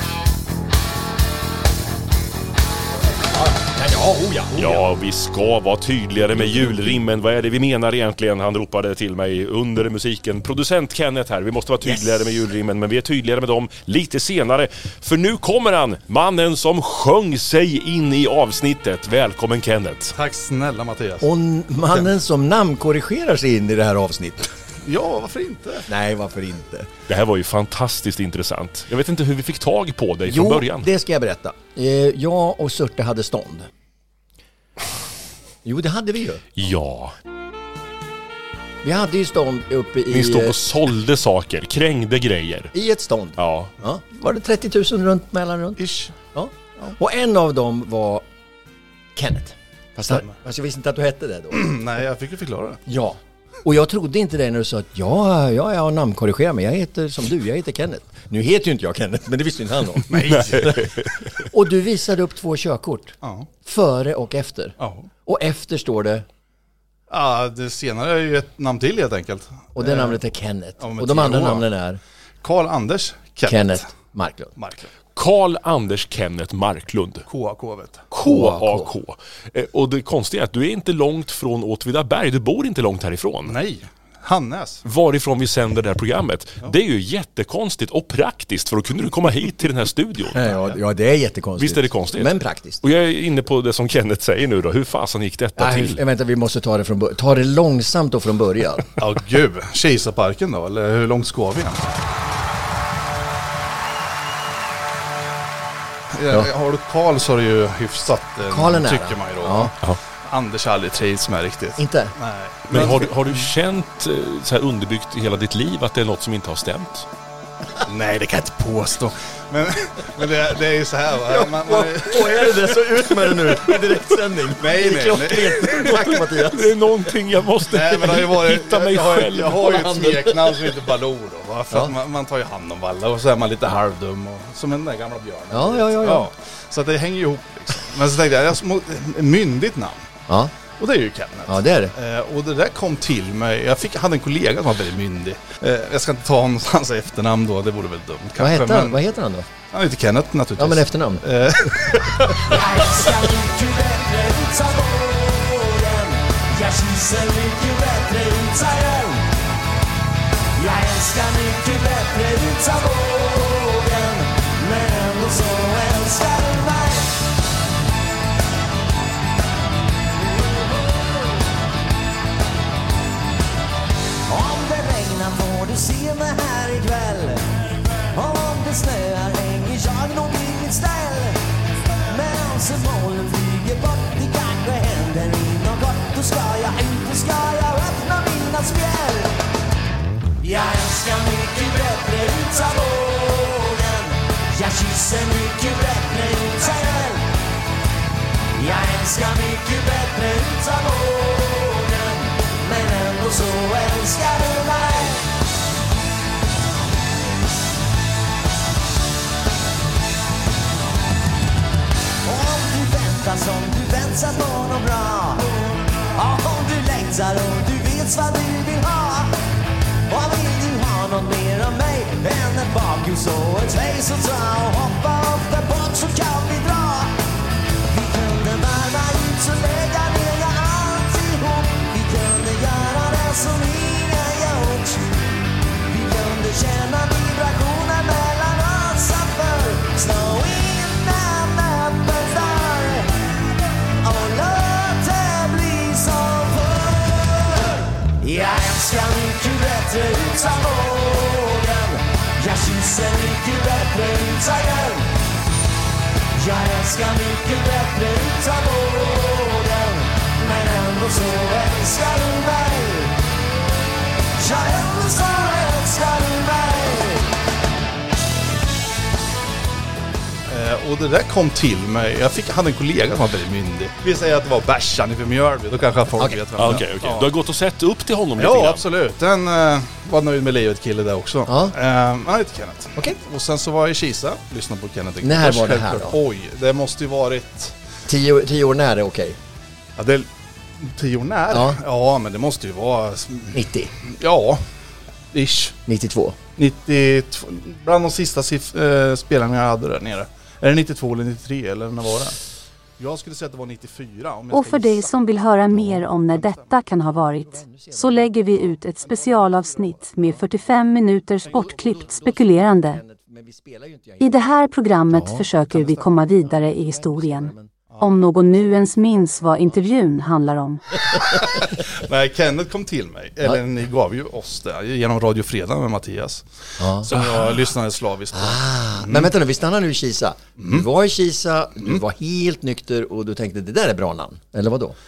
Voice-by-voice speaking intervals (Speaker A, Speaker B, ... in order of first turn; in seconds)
Speaker A: 3.4-4.8, 11.8-12.4, 21.2-24.5, 25.9-26.9, 30.2-33.7, 35.6-36.5, 38.8-40.6, 42.7-48.2, 49.1-51.7, 52.9-60.1, 61.5-66.2, 69.8-72.0, 73.5-74.5, 78.2-78.9, 90.3-92.8, 95.6-98.9, 108.5-109.7, 111.8-112.1, 121.2-126.8, 129.6-130.4, 131.7-131.9, 135.5-136.3, 140.3-140.5, 141.5-141.9, 148.4-149.5, 150.6-151.2, 276.2-276.8, 281.5-281.8, 285.2-286.2, 288.1-289.4, 291.5-291.8, 293.5-293.9, 295.9-296.4, 305.7-306.1, 307.1-308.8, 311.5-314.4, 315.1-317.7, 326.8-327.1, 328.3-335.0
Speaker B: 4.6-20.1, 27.1-30.9, 36.6-37.1, 40.1-42.7, 43.4-43.7, 60.2-61.5, 75.1-77.2, 78.1-83.6, 84.8-90.5, 91.6-92.3, 92.8-96.0, 112.7-117.1, 125.6-130.2, 276.6-278.8
Speaker C: 20.1-21.3, 24.8-25.9, 45.8-46.1, 50.1-50.4, 51.5-52.8, 60.1-61.1, 63.2-63.5, 64.8-65.1, 67.1-70.2, 70.8-71.7, 72.4-73.9, 74.6-74.9, 77.2-78.4, 83.4-84.8, 99.0-101.8, 106.1-113.5, 117.8-122.7, 124.6-125.5, 127.7-140.1, 140.8-149.0, 149.7-152.6, 270.5-277.3, 278.4-287.8, 290.0-290.3, 290.8-294.6, 295.3-295.8, 296.6-302.4, 303.0-305.2, 306.2-306.7, 309.0-310.4, 321.3-329.3, 330.6-330.9
Speaker D: 152.4-159.3, 160.6-167.2, 170.5-171.0, 174.3-177.5, 178.1-181.4, 182.1-189.4, 190.4-197.3, 198.5-205.3, 212.2-215.5, 216.1-219.3, 220.1-227.2, 227.9-235.1, 235.9-243.3, 244.0-255.1, 256.4-263.1, 264.4-267.3
Speaker E: 304.5-313.0, 314.2-320.8